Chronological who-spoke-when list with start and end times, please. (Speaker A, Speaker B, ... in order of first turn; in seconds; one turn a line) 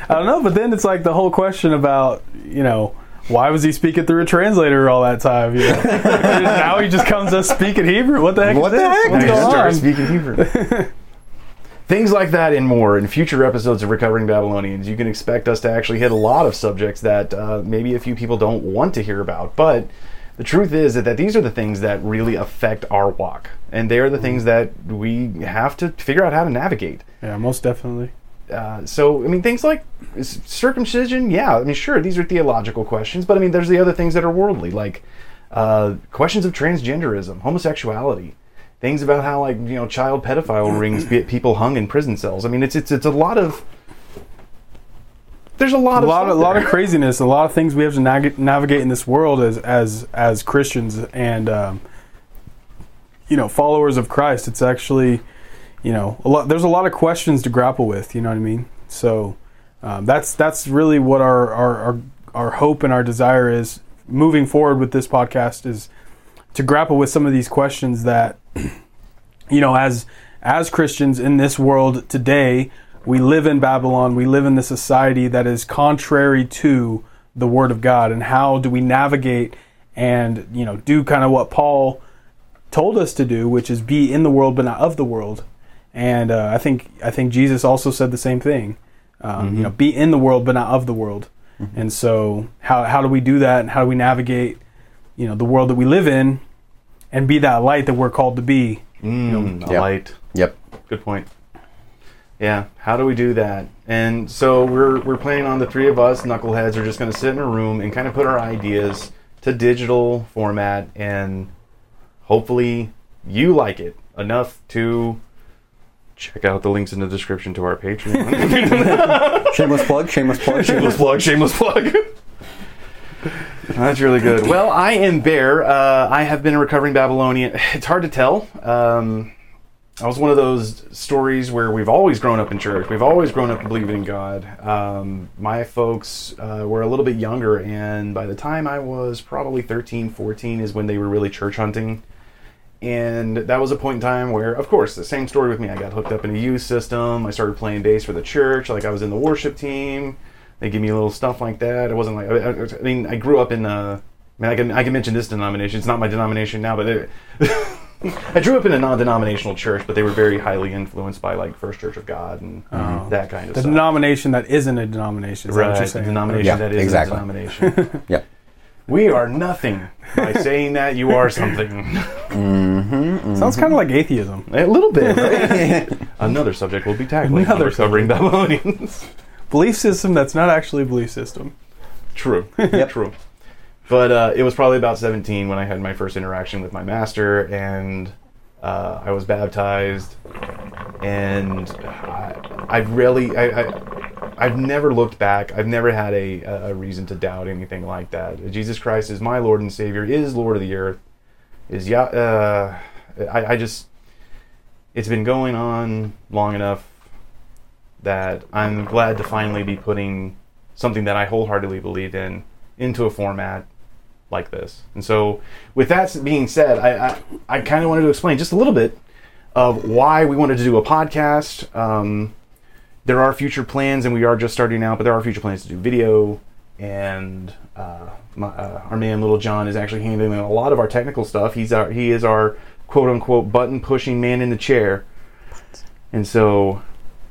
Speaker A: 0.1-10.9
Speaker B: 8.4-9.6
Speaker C: 9.1-10.5
Speaker C: 11.9-27.0
Speaker A: 27.2-28.1
Speaker C: 28.5-43.6
Speaker C: 45.6-46.8
Speaker A: 45.9-51.8
Speaker A: 53.3-55.2
Speaker A: 55.8-65.9
Speaker A: 66.5-68.8
Speaker A: 69.5-82.0
Speaker A: 82.7-94.6
Speaker C: 89.4-89.7
Speaker A: 95.2-96.4
Speaker A: 97.1-99.5
Speaker C: 99.0-100.2
Speaker B: 99.7-100.5
Speaker C: 100.9-101.3
Speaker C: 102.4-111.5
Speaker C: 112.2-115.2
Speaker C: 116.2-122.1
Speaker B: 118.7-121.0
Speaker C: 123.7-129.3
Speaker C: 130.0-142.0
Speaker C: 142.8-163.9
Speaker A: 162.7-166.6
Speaker C: 165.5-167.9
Speaker B: 166.4-167.2
Speaker A: 167.6-168.0
Speaker C: 168.9-172.3
Speaker B: 172.3-173.7
Speaker A: 173.3-174.5
Speaker C: 174.5-179.1
Speaker A: 175.0-175.7
Speaker B: 175.1-175.9
Speaker A: 177.3-178.2
Speaker A: 179.5-181.5
Speaker C: 182.1-183.1
Speaker A: 182.6-182.9
Speaker C: 183.9-190.2
Speaker C: 191.0-193.8
Speaker C: 194.4-201.0
Speaker C: 201.7-203.9
Speaker C: 204.9-206.9
Speaker C: 208.0-213.7
Speaker C: 214.3-219.0
Speaker C: 219.5-222.3
Speaker C: 223.0-235.0
Speaker C: 236.1-236.8